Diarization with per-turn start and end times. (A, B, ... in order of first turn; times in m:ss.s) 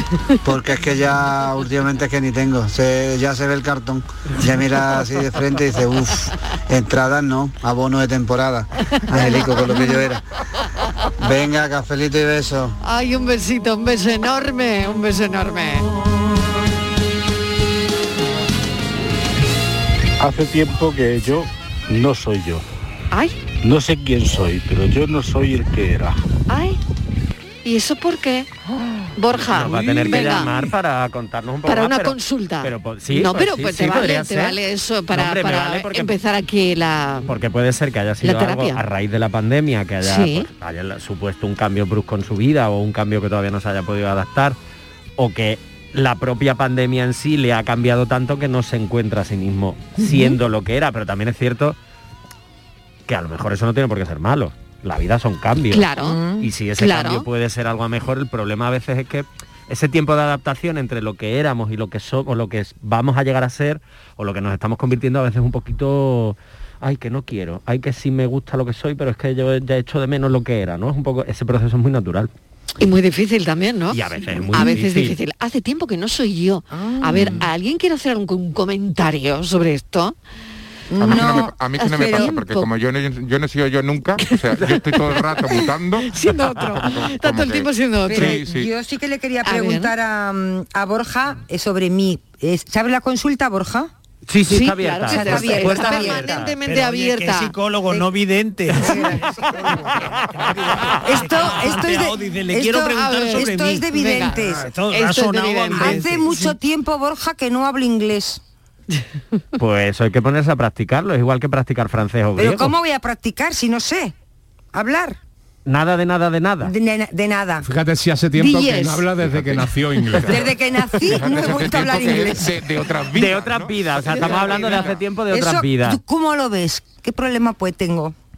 0:00.4-0:10.2 A
0:09.1-0:09.9 B
0:11.2-0:12.7 A
0:12.8-0:15.9 B
0:20.2-0:22.6 C
0:23.1-0:23.4 B
0:23.6-0:26.2 C
0:26.5-0:26.8 B
0:27.6-0:28.5 B
0:29.2-0:30.5 B
0:29.3-0:34.6 D
0:31.7-0:37.3 B
0:35.1-0:36.2 D
0:37.3-0:44.6 D
0:38.2-0:38.8 B
0:40.0-0:40.5 B
0:45.2-0:51.8 D
0:53.1-1:12.3 D
0:55.7-0:56.2 B
0:56.8-0:57.2 B
1:12.8-1:20.1 B
1:13.9-1:15.2 D
1:16.8-1:17.3 E
1:20.9-1:22.3 F
1:21.0-1:28.7 E
1:21.0-1:21.3 B
1:21.9-1:22.7 B
1:24.3-1:24.7 B
1:25.5-1:28.4 B
1:28.1-1:33.9 F
1:29.4-1:29.9 B
1:34.3-1:36.4 D
1:34.5-1:37.5 B
1:35.0-1:36.4 F
1:36.4-1:39.2 G
1:38.8-1:39.2 B
1:38.8-1:39.3 F
1:40.4-1:46.3 G
1:41.0-1:44.7 F
1:42.9-1:46.5 B
1:45.7-1:48.4 F
1:49.6-1:52.7 D
1:52.4-1:54.1 F
1:54.7-1:55.2 F
1:55.6-1:56.7 D
1:56.6-1:57.7 F
1:57.6-2:00.3 H
1:58.4-1:59.1 F
1:59.3-1:59.6 E
2:00.2-2:00.5 E
2:00.2-2:02.5 F
2:01.0-2:05.0 E
2:03.1-2:06.0 D
2:04.1-2:04.8 B
2:05.3-2:08.1 F